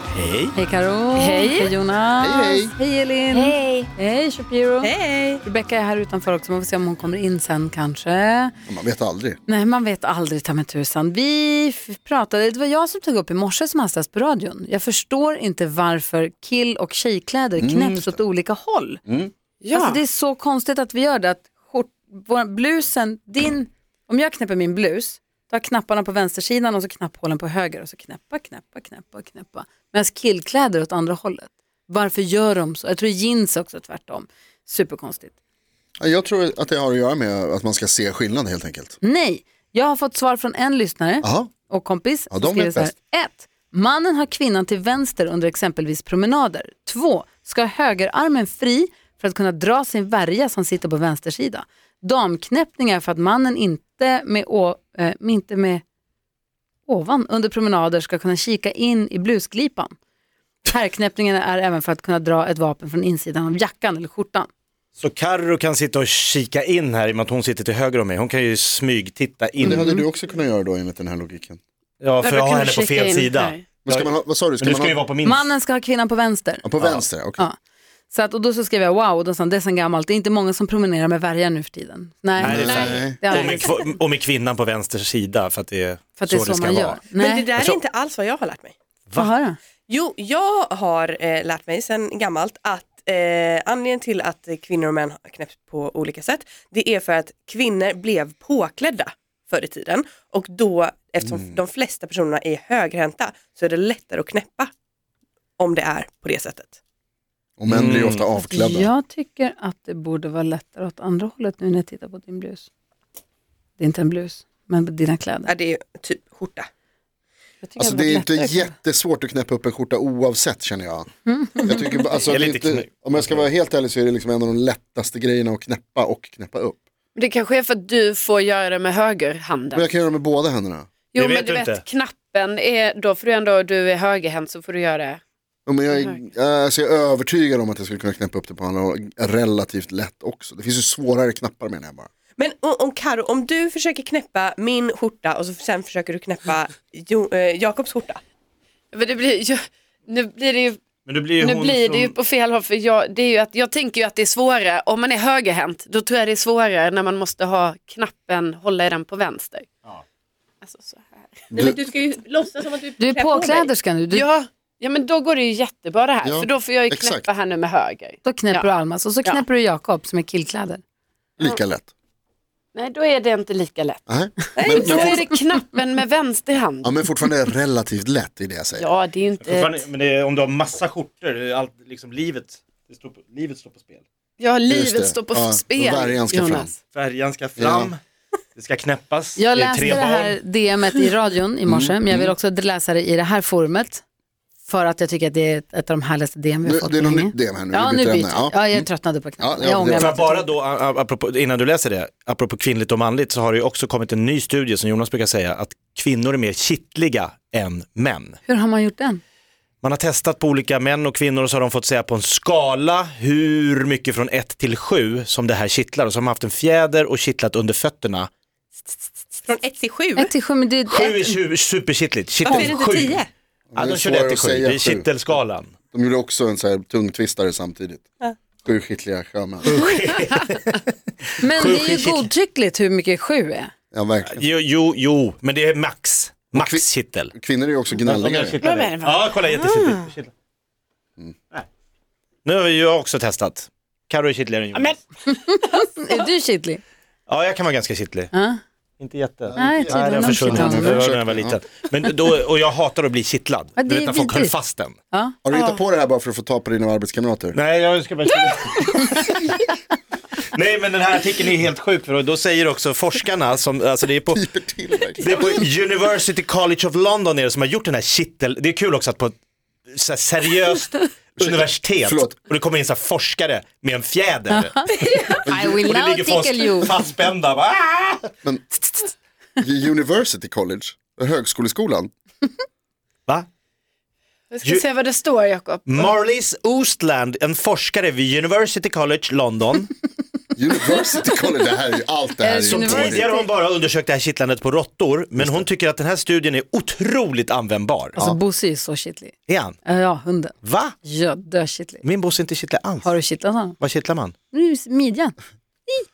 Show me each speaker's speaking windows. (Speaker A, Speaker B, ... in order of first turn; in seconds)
Speaker A: 0.1-0.6, 65.0-70.0, 72.0-75.5, 76.8-77.0, 82.4-87.0, 107.7-108.2, 122.3-123.5, 131.2-131.8, 151.1-152.2, 179.4-184.0, 186.9-188.0, 188.6-190.4, 200.0-208.4, 209.8-218.3, 220.9-223.2, 223.8-225.8, 229.6-232.3, 234.3-237.3, 238.0-240.3, 242.4-245.0, 247.3-248.3, 249.0-255.0, 257.5-259.4, 260.5-264.4, 265.2-269.4, 269.9-274.7, 275.8-278.3, 285.9-289.9, 292.7-298.2, 299.5-299.8, 300.6-300.9, 302.0-303.2, 303.8-304.3
Speaker B: 0.5-8.5, 9.5-19.0, 19.7-35.4, 39.0-55.8, 56.9-60.0, 60.7-64.5, 69.7-70.0, 75.2-76.6, 78.1-83.8, 86.2-87.5, 89.2-89.6, 108.4-112.7, 113.8-115.5, 117.6-118.7, 121.3-122.0, 163.0-164.3, 168.2-170.8, 189.4-194.0, 194.7-200.5, 208.5-209.2, 220.2-221.4, 231.4-233.7, 245.3-246.8, 248.3-248.6, 249.6-251.1, 253.8-254.6, 255.1-255.4, 274.5-276.9, 292.4-293.5, 298.2-302.0, 303.0-303.8, 304.5-305.4
Speaker C: 1.2-1.7, 3.3-3.9, 19.6-20.0, 72.2-73.7, 82.8-83.1, 127.2-129.9, 131.1-135.2, 135.9-136.2, 148.9-150.8, 151.4-159.7, 160.6-161.4, 164.1-168.7, 172.8-174.0, 174.6-177.1, 178.8-179.8, 184.4-186.8, 238.6-240.1, 244.8-246.1, 284.5-286.1
Speaker D: 2.2-2.7, 8.7-9.4, 17.6-18.2, 19.1-19.3, 36.0-39.0, 41.2-41.5, 42.3-42.9, 69.6-71.6, 73.8-75.0, 76.6-77.4, 82.4-83.2, 101.2-101.6, 107.6-108.9, 117.8-126.8, 129.8-130.9, 135.7-142.1, 166.2-167.3, 171.4-171.9, 174.1-175.3, 176.8-178.9, 184.7-186.7, 187.6-187.9, 191.7-192.3, 196.7-200.2, 223.8-225.4, 225.9-228.1, 228.7-229.8, 233.9-234.5, 236.5-238.6, 249.5-251.6, 255.4-257.6, 264.3-265.4, 271.4-272.4, 275.4-275.9, 278.4-278.7, 279.6-282.1, 290.6-293.3, 295.4-295.7
Speaker E: 4.8-5.4, 87.2-88.8, 89.9-104.7, 105.6-106.8, 115.5-116.7, 142.4-148.2, 161.5-163.7, 174.6-175.2, 219.5-220.3, 222.4-223.3